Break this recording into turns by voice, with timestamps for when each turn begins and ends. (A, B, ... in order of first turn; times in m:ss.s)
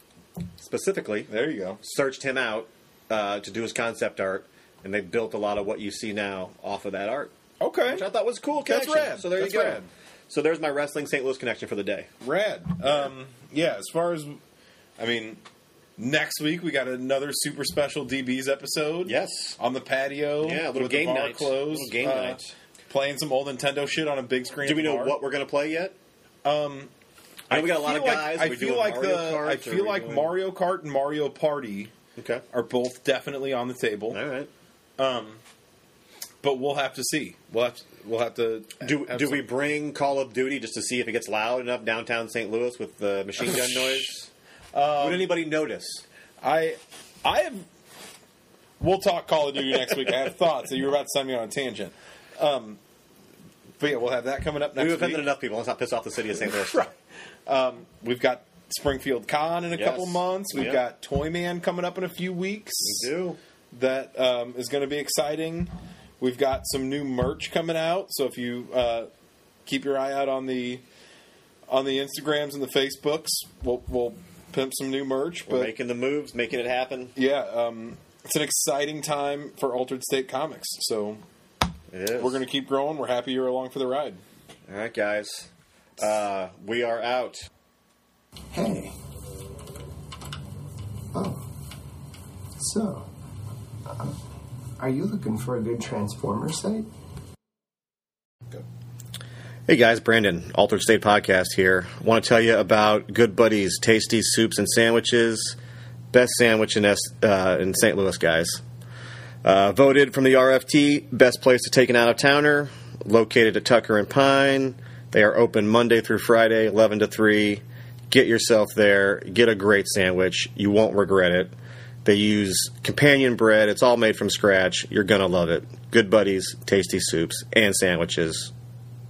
0:00.6-0:01.3 A
0:01.3-0:01.8 B
0:01.8-0:07.3 A
0:07.6-0:08.1 B
0:07.9-0:12.1 A
0:08.6-0:09.9 B
0:12.2-0:14.4 B
0:15.0-0:15.4 B
0:16.0-0:25.2 B
0:19.0-0:19.6 A
0:20.4-0:22.5 A
0:24.6-0:26.0 A
0:26.4-0:26.9 B
0:27.5-0:30.3 A
0:27.5-0:31.9 B
0:32.2-0:32.4 A
0:32.5-0:34.2 B
0:34.1-0:34.5 A
0:35.0-0:35.4 B
0:36.4-0:39.4 B
0:38.8-0:44.3 A
0:43.4-0:44.1 B
0:44.7-0:45.3 B
0:45.0-0:46.0 A
0:46.4-0:47.7 B
0:48.8-0:52.8 B
0:53.8-0:55.2 B
0:54.8-0:56.9 A
0:56.4-0:56.9 B
0:57.4-1:03.1 B
0:59.7-1:00.8 A
1:02.8-1:03.4 A
1:03.7-1:09.1 B
1:09.7-1:10.8 B
1:11.7-1:15.7 B
1:15.4-1:17.1 A
1:17.2-1:21.2 B
1:21.9-1:22.4 A
1:22.2-1:24.2 B
1:24.7-1:27.4 A
1:28.5-1:28.9 C
1:31.1-1:31.4 C
1:32.6-1:33.1 C
1:33.9-1:34.1 C
1:34.8-1:36.9 C
1:39.7-1:45.6 A
1:46.1-1:48.6 A
1:49.4-2:01.5 A
2:02.0-2:08.5 A